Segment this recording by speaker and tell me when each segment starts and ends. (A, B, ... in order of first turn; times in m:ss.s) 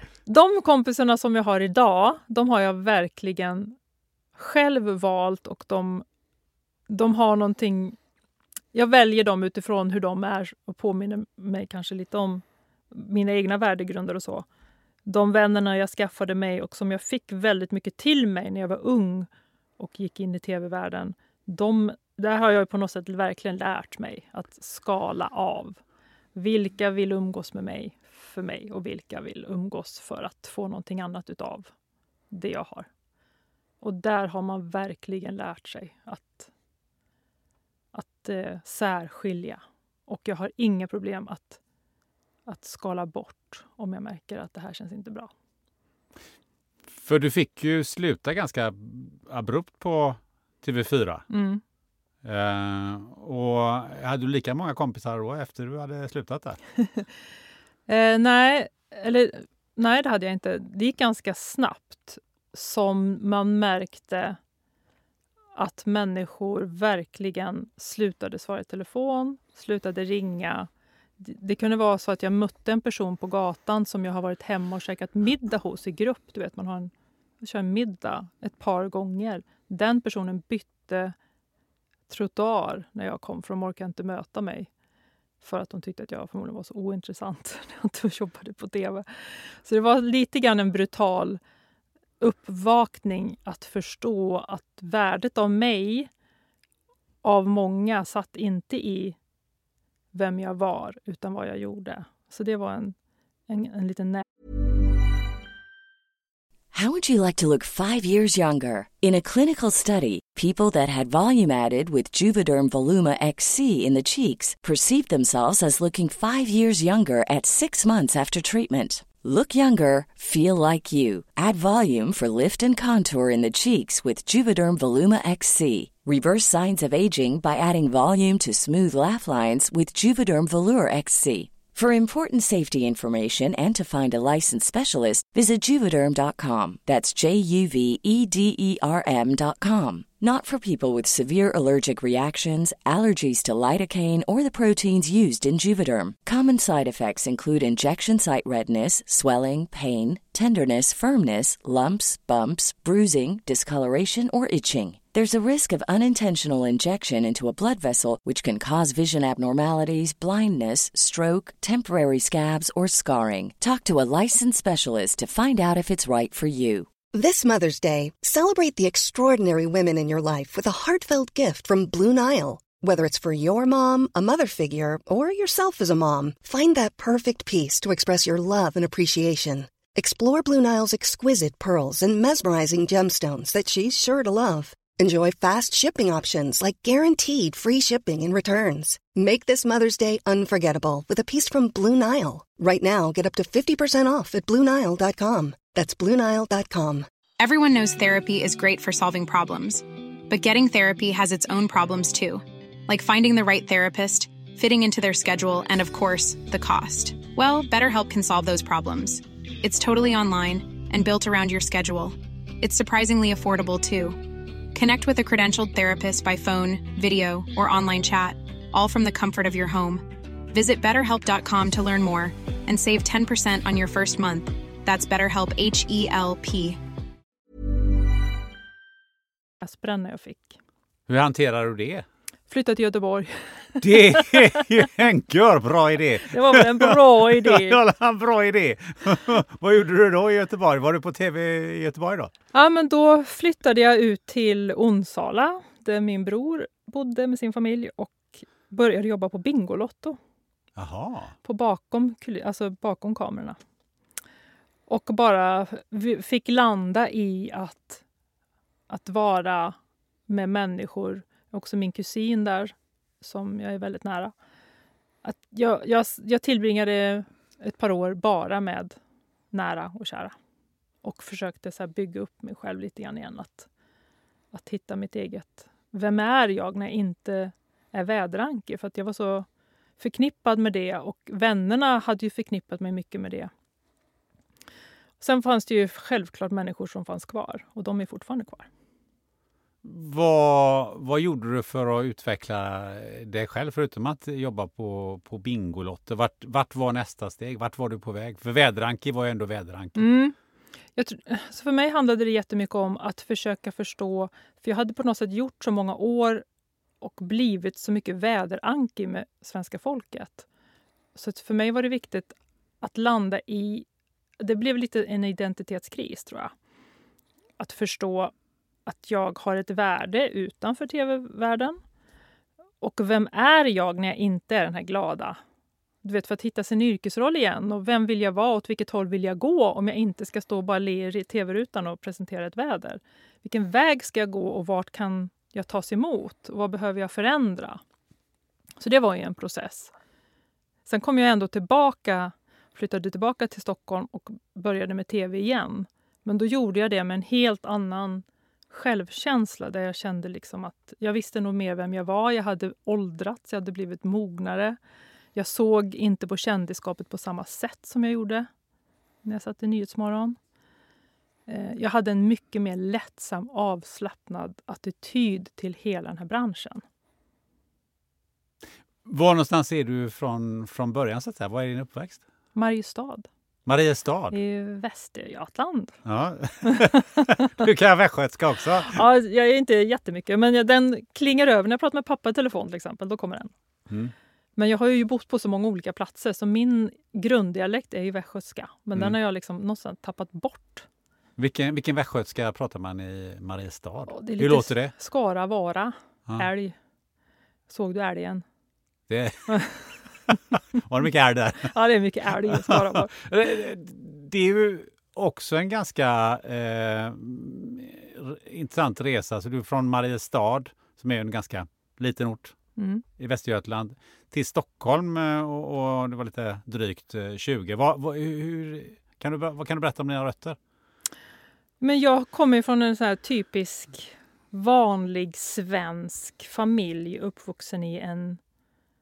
0:00.2-0:03.8 A
0:04.4-0:06.0 A
0:06.9-0:08.0 A
0:08.7-0:14.4 A
0:15.0-0:19.3 A
0:19.8-0:25.8 A
0:26.3-0:31.7 A
0:32.3-0:32.9 A
0:33.8-0:36.5 A
0:37.9-0:41.6 A
0:42.5-0:45.3 A
0:47.0-0:51.2 B
0:51.3-0:51.6 A
0:52.2-0:56.6 B
0:57.9-1:04.4 A
1:05.6-1:21.1 A
1:22.1-1:24.7 A
1:25.4-1:31.4 A
1:32.2-1:36.1 A
1:37.2-1:39.2 A
1:40.1-1:42.9 A
1:43.5-1:44.2 A
1:46.7-2:46.9 C
2:47.1-3:17.0 D
3:17.4-3:46.8 E
3:49.6-3:50.6 A
3:51.1-3:52.0 B
3:52.5-3:54.6 A
3:53.8-4:02.3 B
3:56.3-3:57.8 A
4:02.5-4:10.2 A
4:10.8-4:11.3 B
4:11.4-4:13.6 A
4:14.9-4:18.0 A
4:18.9-4:19.8 A
4:20.3-4:24.3 A
4:25.2-4:29.0 A
4:29.5-4:30.3 A
4:31.0-4:33.7 A
4:34.5-4:39.5 A
4:40.0-4:43.5 A
4:45.2-4:48.7 A
4:49.8-5:00.1 B
5:00.0-5:00.3 A
5:01.0-5:06.4 A
5:07.0-5:10.4 A
5:11.1-5:13.9 A
5:14.4-5:16.5 A
5:17.6-5:18.3 A
5:18.8-5:21.8 A
5:22.8-5:25.4 A
5:26.0-5:37.8 A
5:38.8-5:39.9 A
5:40.9-5:54.8 A
5:55.3-5:58.5 A
5:59.2-6:00.4 A
6:01.5-6:06.8 A
6:09.0-6:12.2 B
6:12.5-6:13.3 A
6:13.6-6:14.4 B
6:14.3-6:16.0 A
6:16.0-6:19.0 B
6:16.6-6:17.5 A
6:18.9-6:23.5 A
6:24.6-6:30.9 A
6:31.4-6:34.9 B
6:34.1-6:36.8 A
6:37.7-6:38.4 A
6:39.1-6:41.8 B
6:39.5-6:39.8 A
6:41.7-6:43.2 A
6:42.4-6:52.6 B
6:52.8-6:53.0 A
6:53.2-7:00.6 B
7:01.8-7:08.4 A